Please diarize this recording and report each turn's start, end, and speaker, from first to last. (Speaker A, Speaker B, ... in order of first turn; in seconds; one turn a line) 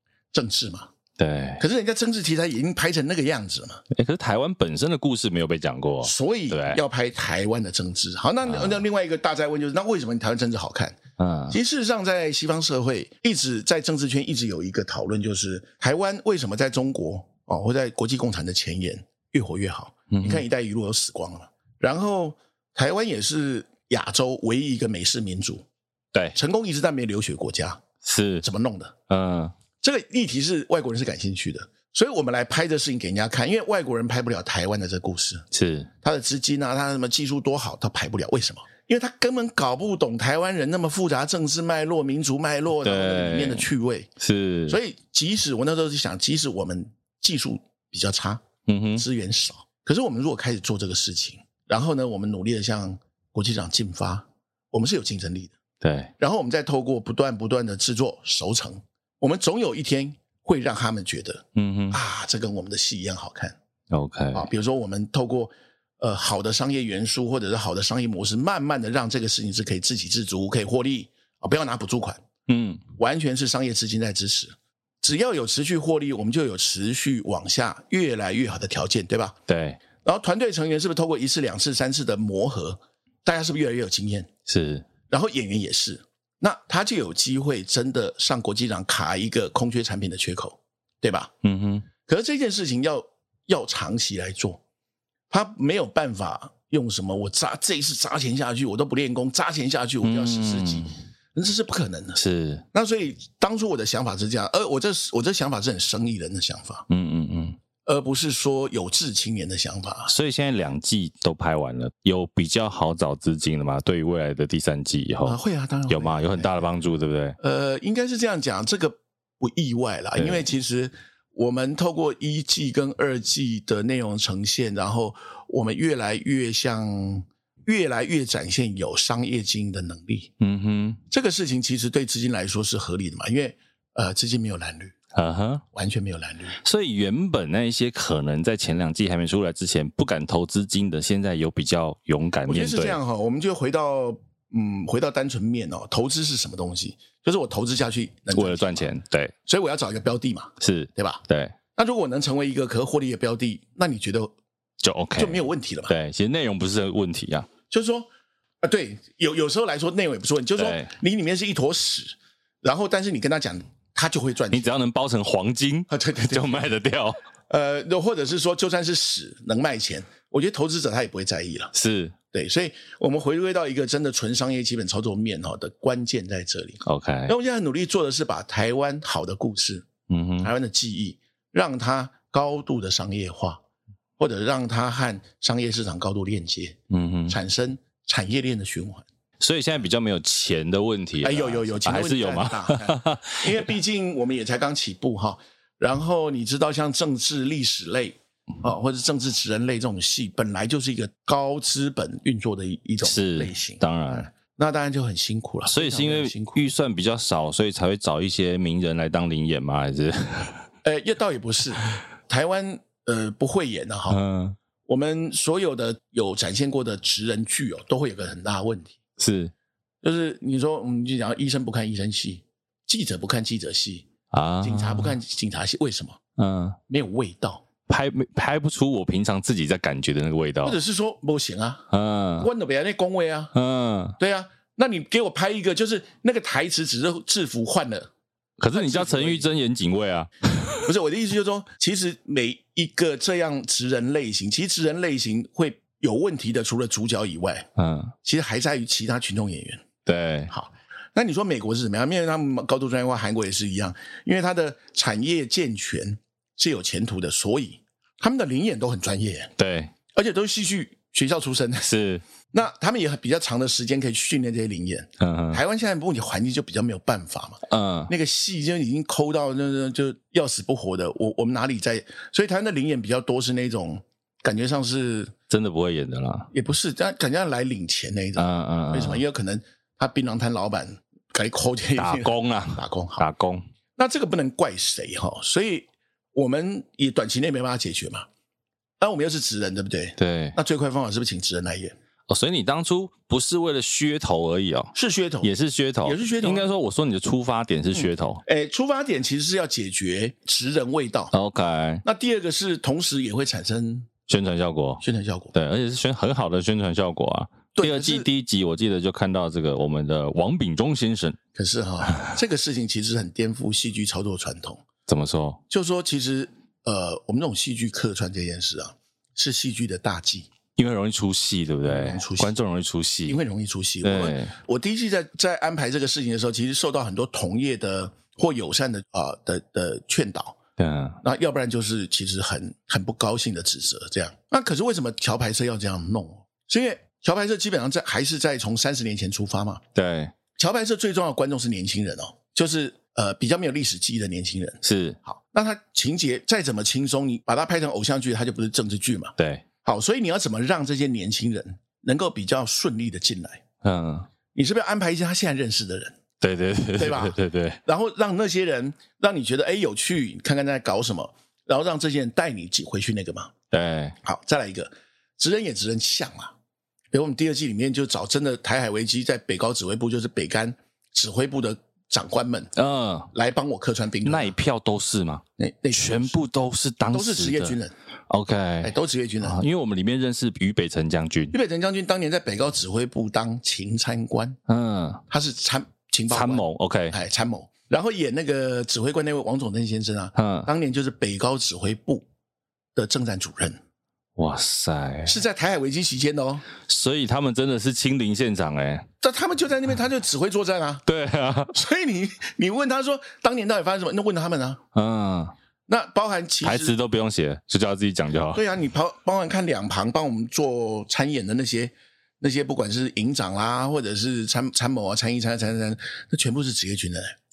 Speaker A: 0.3-0.9
Speaker B: 1.2-1.6
Speaker A: 1.6-3.8
Speaker B: 3.9-6.8
Speaker A: 6.0-11.0
Speaker B: 8.4-8.8
Speaker B: 11.2-11.6
Speaker A: 11.5-25.6
Speaker B: 20.1-20.4
Speaker A: 26.3-27.8
Speaker B: 28.0-28.4
Speaker A: 28.4-28.9
Speaker B: 29.1-29.5
Speaker A: 29.8-35.4
Speaker B: 35.5-35.9
Speaker A: 36.0-44.1
Speaker B: 42.8-43.7
Speaker B: 44.2-44.8
Speaker A: 44.7-48.4
Speaker B: 48.7-49.0
Speaker A: 49.0-55.5
Speaker B: 55.8-56.1
Speaker A: 56.2-63.5
Speaker B: 61.5-62.0
Speaker B: 63.9-64.5
Speaker A: 64.3-72.2
Speaker B: 72.5-72.8
Speaker A: 73.0-79.4
Speaker B: 79.5-79.8
Speaker A: 80.0-84.3
Speaker B: 84.5-84.9
Speaker A: 85.1-91.3
Speaker B: 91.4-91.9
Speaker A: 92.0-94.6
Speaker A: 95.3-102.2
Speaker B: 100.0-100.9
Speaker B: 102.2-102.6
Speaker A: 102.7-106.8
Speaker B: 106.9-107.6
Speaker A: 107.8-110.1
Speaker B: 110.1-117.4
Speaker A: 115.2-116.7
Speaker A: 117.4-130.3
Speaker B: 120.2-120.5
Speaker B: 130.4-131.0
Speaker A: 131.1-134.9
Speaker B: 135.1-135.6
Speaker A: 135.7-136.5
Speaker B: 136.6-143.0
Speaker A: 142.5-148.9
Speaker B: 148.3-149.3
Speaker A: 149.4-151.2
Speaker B: 150.6-151.5
Speaker A: 151.7-154.3
Speaker B: 154.8-157.5
Speaker A: 155.2-155.9
Speaker A: 157.7-158.1
Speaker A: 158.6-164.7
Speaker B: 160.6-160.9
Speaker B: 164.5-167.2
Speaker A: 165.9-166.8
Speaker A: 167.5-171.7
Speaker B: 171.7-172.1
Speaker A: 172.3-179.9
Speaker B: 176.8-177.3
Speaker B: 180.1-180.5
Speaker A: 180.4-183.6
Speaker A: 184.2-186.8
Speaker B: 186.9-187.3
Speaker A: 187.3-189.0
Speaker B: 189.4-193.7
Speaker A: 191.2-206.6
Speaker B: 203.0-204.3
Speaker B: 205.7-210.7
Speaker A: 210.8-214.2
Speaker B: 214.1-214.6
Speaker A: 214.9-219.0
Speaker B: 219.2-219.5
Speaker A: 220.0-224.1
Speaker B: 224.3-225.1
Speaker A: 224.6-226.2
Speaker B: 226.4-226.8
Speaker A: 226.9-227.6
Speaker B: 227.9-230.8
Speaker A: 230.6-233.5
Speaker B: 231.9-232.5
Speaker B: 233.5-234.2
Speaker A: 234.2-238.1
Speaker B: 238.6-240.8
Speaker A: 238.7-239.5
Speaker A: 240.8-247.7
Speaker B: 247.8-248.1
Speaker A: 248.2-249.8
Speaker B: 250.0-250.5
Speaker A: 250.5-259.5
Speaker B: 259.6-259.9
Speaker A: 260.1-261.9
Speaker B: 261.8-262.2
Speaker A: 262.5-275.3
Speaker B: 265.2-265.6
Speaker B: 267.7-268.1
Speaker B: 275.5-276.5
Speaker A: 276.5-283.2
Speaker B: 278.4-279.2
Speaker B: 281.9-283.6
Speaker A: 284.0-288.3
Speaker A: 289.0-291.9
Speaker B: 290.2-290.6
Speaker B: 292.3-298.4
Speaker A: 294.9-295.5
Speaker A: 296.0-296.7
Speaker A: 297.9-301.3
Speaker B: 301.3-302.0
Speaker A: 302.0-304.1
Speaker B: 304.3-311.4
Speaker A: 305.0-305.5
Speaker A: 307.7-308.3
Speaker A: 311.5-314.8
Speaker B: 312.1-312.4
Speaker B: 315.1-315.6
Speaker A: 315.7-320.5
Speaker B: 320.8-323.4
Speaker A: 321.8-322.6
Speaker A: 323.3-330.6
Speaker B: 324.0-324.5
Speaker B: 330.8-331.2
Speaker A: 331.2-339.8
Speaker B: 339.9-340.3
Speaker A: 340.6-353.6
Speaker B: 344.8-345.2
Speaker B: 349.4-349.6
Speaker B: 353.8-354.3
Speaker A: 354.5-356.2
Speaker B: 356.4-357.8
Speaker A: 357.0-363.5
Speaker B: 363.7-364.2
Speaker A: 364.2-366.5
Speaker A: 367.1-372.7
Speaker B: 372.8-373.3
Speaker A: 373.3-374.5
Speaker B: 374.2-377.8
Speaker A: 375.6-376.4
Speaker A: 377.1-377.9
Speaker B: 378.3-381.5
Speaker A: 378.8-379.6
Speaker A: 381.5-384.6
Speaker B: 384.7-385.2
Speaker A: 385.3-392.2
Speaker B: 386.3-387.2
Speaker B: 390.3-390.7
Speaker A: 392.9-393.8
Speaker B: 394.4-395.4
Speaker A: 395.3-396.6
Speaker B: 396.9-399.1
Speaker A: 399.2-401.0
Speaker B: 401.1-401.8
Speaker A: 401.7-404.8
Speaker B: 404.9-405.5
Speaker A: 405.9-406.9
Speaker B: 406.6-408.6
Speaker A: 408.5-417.3